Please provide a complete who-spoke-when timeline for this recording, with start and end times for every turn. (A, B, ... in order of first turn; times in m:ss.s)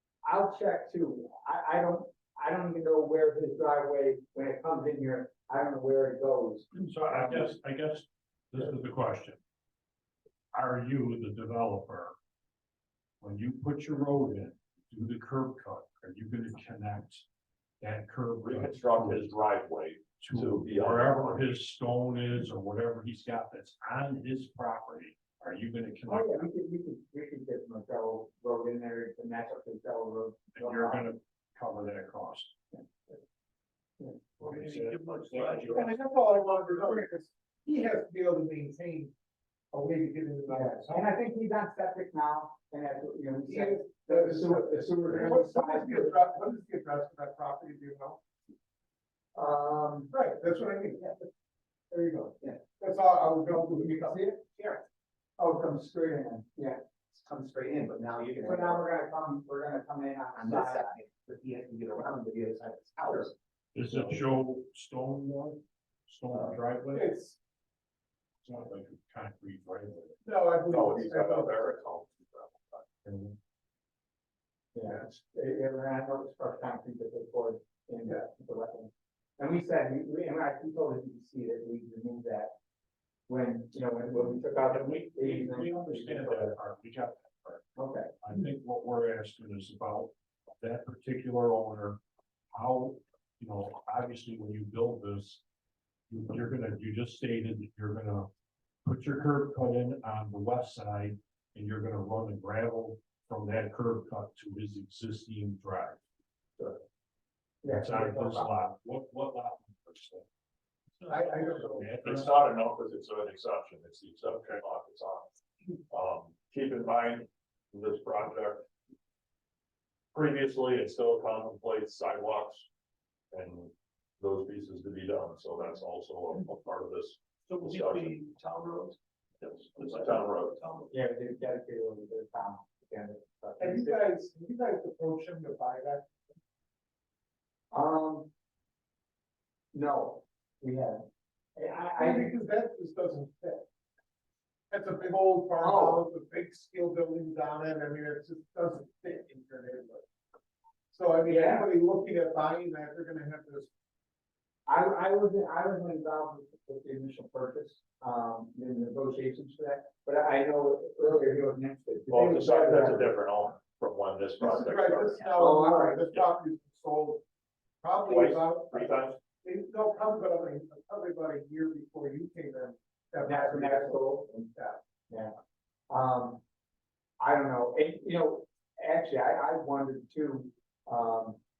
0:00.2-0:07.5 A
0:06.7-0:09.4 B
0:10.5-0:12.2 B
0:13.2-0:17.3 B
0:17.8-0:19.4 B
0:18.4-0:21.6 C
0:20.2-0:26.5 B
0:26.1-0:31.1 A
0:30.5-0:32.5 B
0:32.7-0:33.2 A
0:34.4-0:36.0 D
0:34.4-0:36.0 B
0:35.7-0:39.1 E
0:39.7-0:41.1 E
0:40.5-0:46.2 A
0:43.5-0:48.2 E
0:49.3-0:50.1 A
0:50.1-0:51.3 E
0:51.9-0:54.8 E
0:53.8-0:54.4 A
0:55.4-0:56.8 A
0:57.1-0:58.8 D
0:58.4-1:00.9 A
1:00.4-1:03.3 D
1:03.7-1:07.1 B
1:06.9-1:07.4 E
1:08.4-1:10.2 B
1:10.2-1:11.7 E
1:10.7-1:12.8 C
1:13.0-1:13.4 B
1:14.7-1:22.5 A
1:23.3-1:26.6 A
1:24.6-1:32.0 B
1:27.8-1:28.1 A
1:32.5-1:35.4 B
1:36.1-1:38.3 B
1:38.8-1:46.0 B
1:47.6-1:48.5 A
1:47.6-1:50.2 B
1:51.0-1:52.3 B
1:51.1-1:52.0 E
1:51.9-1:55.3 C
1:54.3-1:54.6 B
1:55.9-1:58.7 C
2:00.1-2:02.7 C
2:03.3-2:08.2 C
2:07.5-2:10.9 D
2:09.7-2:10.6 C
2:10.9-2:14.0 A
2:13.6-2:16.1 E
2:17.7-2:18.3 A
2:19.7-2:22.3 A
2:22.0-2:23.7 E
2:24.7-2:30.0 E
2:25.6-2:26.0 A
2:30.9-2:33.7 E
2:31.2-2:31.7 A
2:34.7-2:43.1 A
2:42.1-2:45.3 C
2:44.4-2:47.2 E
2:45.4-2:46.0 A
2:47.8-2:54.8 E
2:48.0-2:49.2 C
2:53.2-2:54.5 A
2:55.1-2:55.3 A
2:55.9-2:56.4 A
2:57.2-3:01.4 A